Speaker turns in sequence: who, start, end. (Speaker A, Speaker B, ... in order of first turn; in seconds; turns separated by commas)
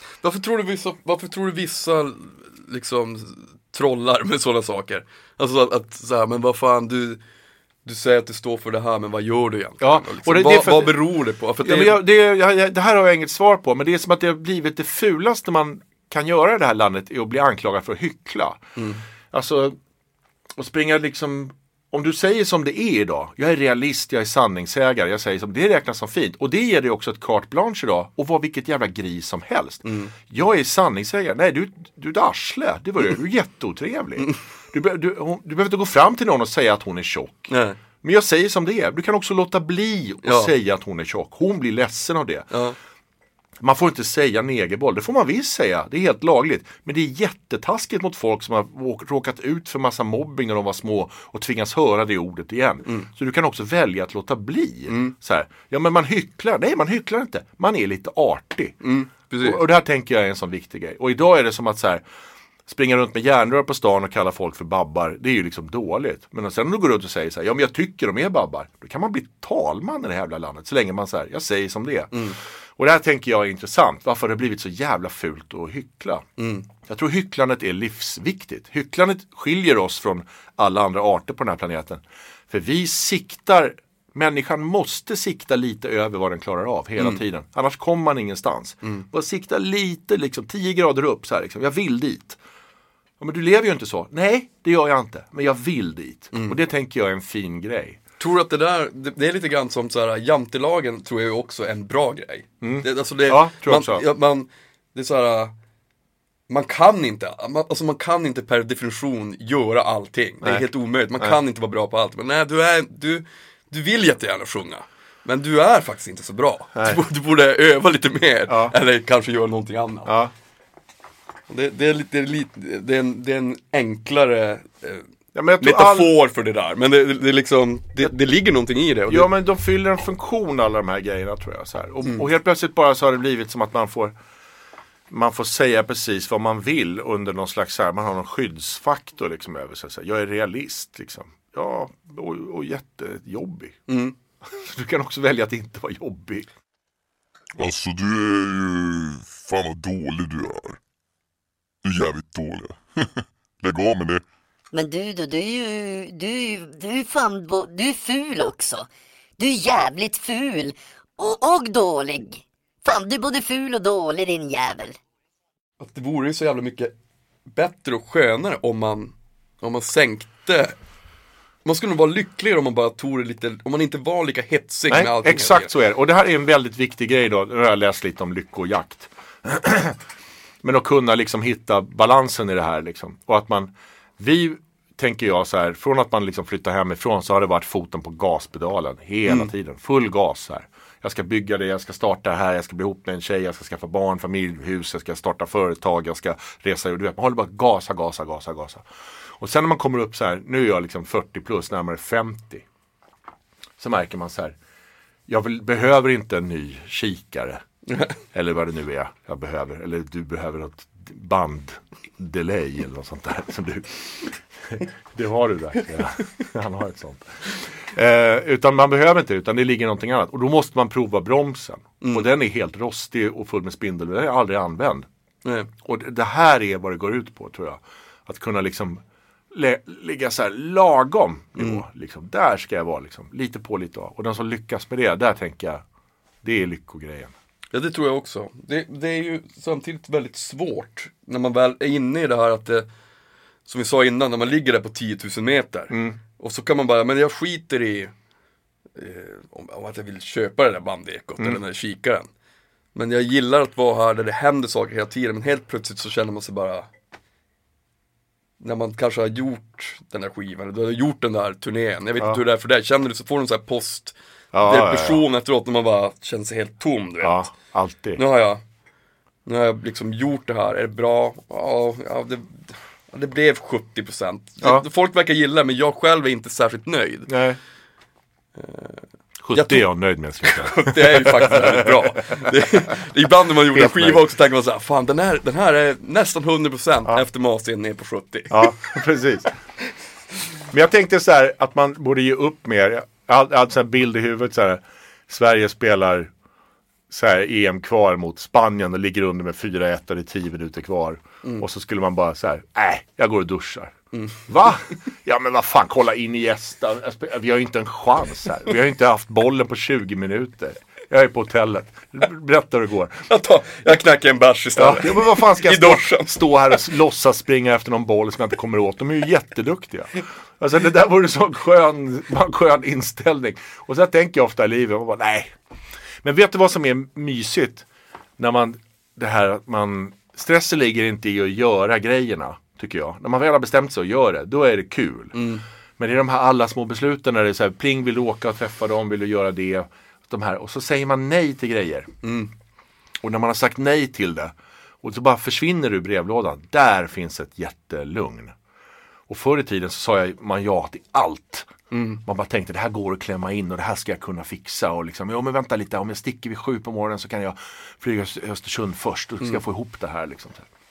Speaker A: 0.2-7.2, Speaker A: 7.8-12.0, Speaker B: 9.8-11.1, Speaker B: 11.6-18.7, Speaker A: 18.8-19.0, Speaker B: 19.3-19.8, Speaker B: 20.6-42.5, Speaker A: 29.8-30.1, Speaker A: 37.5-37.8, Speaker A: 40.2-40.5, Speaker A: 42.5-42.8, Speaker B: 43.6-58.8, Speaker A: 54.9-55.1, Speaker A: 58.8-59.6, Speaker B: 59.4-62.0, Speaker B: 62.7-72.2, Speaker A: 72.1-72.4, Speaker B: 72.8-76.3, Speaker A: 76.4-76.7, Speaker B: 76.8-92.4, Speaker B: 93.2-98.0, Speaker A: 98.2-105.5, Speaker B: 102.6-104.0, Speaker A: 106.5-120.2, Speaker B: 116.8-117.0, Speaker B: 118.5-118.7, Speaker B: 120.1-120.3, Speaker A: 121.5-125.1, Speaker B: 125.3-126.1, Speaker A: 125.6-129.3, Speaker B: 129.1-134.2, Speaker B: 135.1-143.8, Speaker A: 143.9-144.2, Speaker B: 144.4-146.5, Speaker C: 147.6-150.8, Speaker C: 151.8-154.2, Speaker D: 154.7-165.0, Speaker A: 165.8-166.9, Speaker A: 167.5-170.8, Speaker A: 171.7-175.7, Speaker B: 174.9-180.0, Speaker B: 180.6-198.9, Speaker B: 199.4-202.7, Speaker B: 203.8-204.6, Speaker B: 205.3-207.6, Speaker B: 208.2-225.1, Speaker A: 225.4-225.7, Speaker B: 225.8-235.8, Speaker A: 231.6-231.8, Speaker B: 236.4-237.3, Speaker A: 237.7-242.9, Speaker A: 243.7-248.1, Speaker B: 245.9-246.2, Speaker A: 249.0-252.3, Speaker A: 252.9-256.9, Speaker A: 258.6-267.5, Speaker B: 264.5-265.2, Speaker B: 267.2-268.2, Speaker A: 268.2-268.6, Speaker A: 269.5-277.3, Speaker B: 277.3-277.6, Speaker A: 278.6-279.9, Speaker B: 279.4-282.6, Speaker A: 280.4-289.0, Speaker B: 283.7-284.2, Speaker B: 288.5-289.5, Speaker B: 290.7-296.3, Speaker B: 297.1-303.9, Speaker A: 304.1-304.4, Speaker B: 304.5-313.3, Speaker A: 313.3-316.8, Speaker B: 314.8-325.6, Speaker B: 326.2-327.9, Speaker B: 328.4-335.4, Speaker A: 335.3-335.6, Speaker B: 336.0-342.1, Speaker A: 342.2-342.5, Speaker B: 343.2-348.5, Speaker B: 349.3-351.7, Speaker A: 351.9-352.2, Speaker B: 352.2-360.7